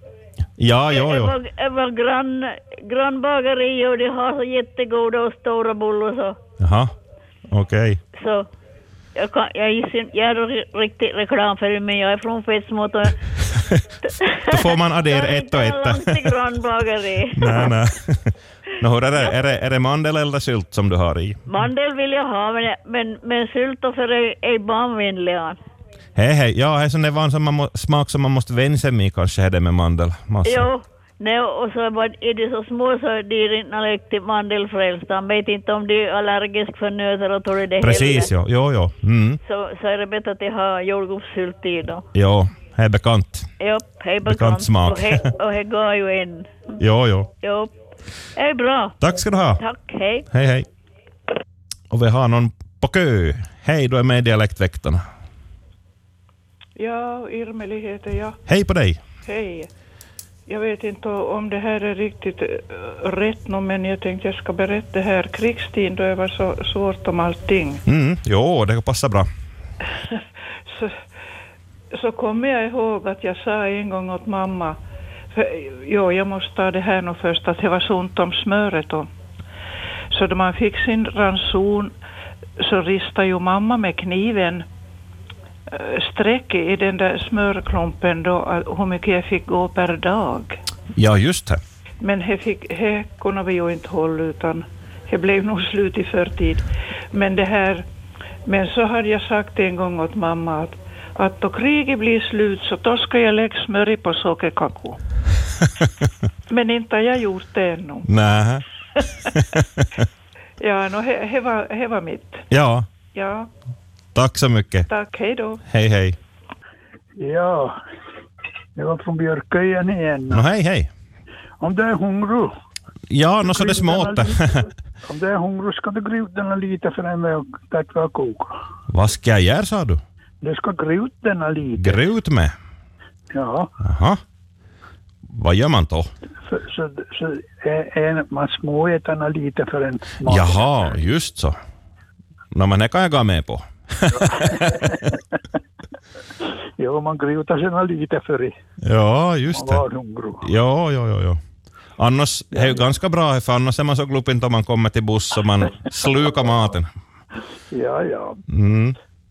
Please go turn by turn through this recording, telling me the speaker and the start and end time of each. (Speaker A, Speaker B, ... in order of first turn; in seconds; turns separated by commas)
Speaker A: 0.6-1.3, Speaker B: 0.9-6.4, Speaker A: 6.6-6.9, Speaker A: 7.5-8.0, Speaker B: 8.1-8.5, Speaker B: 9.2-13.1, Speaker A: 13.5-13.8, Speaker B: 14.2-17.7, Speaker A: 14.5-16.3, Speaker A: 17.3-21.4, Speaker B: 21.5-25.6, Speaker A: 26.1-30.7, Speaker B: 30.4-38.3, Speaker A: 37.8-39.4, Speaker B: 39.4-42.1, Speaker A: 42.1-43.5, Speaker B: 43.6-46.6, Speaker A: 44.2-45.2, Speaker A: 46.8-47.3, Speaker B: 47.4-47.7, Speaker B: 48.4-49.0, Speaker A: 49.0-49.6, Speaker B: 49.6-50.2, Speaker A: 50.3-50.7, Speaker A: 51.9-55.0, Speaker C: 56.8-58.4, Speaker A: 58.5-59.0, Speaker C: 59.2-59.7, Speaker C: 60.5-67.8, Speaker A: 67.9-69.3, Speaker C: 70.0-71.0, Speaker C: 71.9-74.8, Speaker C: 75.3-79.1, Speaker C: 80.1-81.9, Speaker C: 82.6-84.7, Speaker C: 85.7-90.6, Speaker A: 90.9-91.6, Speaker C: 92.0-97.8, Speaker C: 98.5-105.0, Speaker A: 105.6-105.9, Speaker C: 106.5-108.1, Speaker A: 108.0-108.6, Speaker A: 109.3-110.0, Speaker C: 110.6-112.5, Speaker A: 112.5-112.8, Speaker C: 113.1-113.5, Speaker A: 114.1-114.9, Speaker C: 114.9-115.6, Speaker A: 115.7-116.2, Speaker D: 117.2-117.8, Speaker D: 118.8-120.5, Speaker A: 120.3-120.9, Speaker D: 121.6-122.5, Speaker A: 123.1-124.7, Speaker D: 123.4-124.4, Speaker D: 125.0-128.6, Speaker A: 128.9-130.0, Speaker D: 130.4-132.0, Speaker A: 131.8-132.5, Speaker D: 133.3-133.7, Speaker A: 133.8-134.2, Speaker A: 135.3-136.1, Speaker D: 136.5-140.6, Speaker A: 140.3-141.6, Speaker A: 142.5-145.0, Speaker D: 144.3-145.0, Speaker D: 146.8-148.5, Speaker A: 148.8-149.8, Speaker D: 149.5-150.5, Speaker A: 150.4-151.4, Speaker A: 152.0-156.9, Speaker D: 152.5-152.9, Speaker D: 157.7-158.4, Speaker A: 158.5-158.9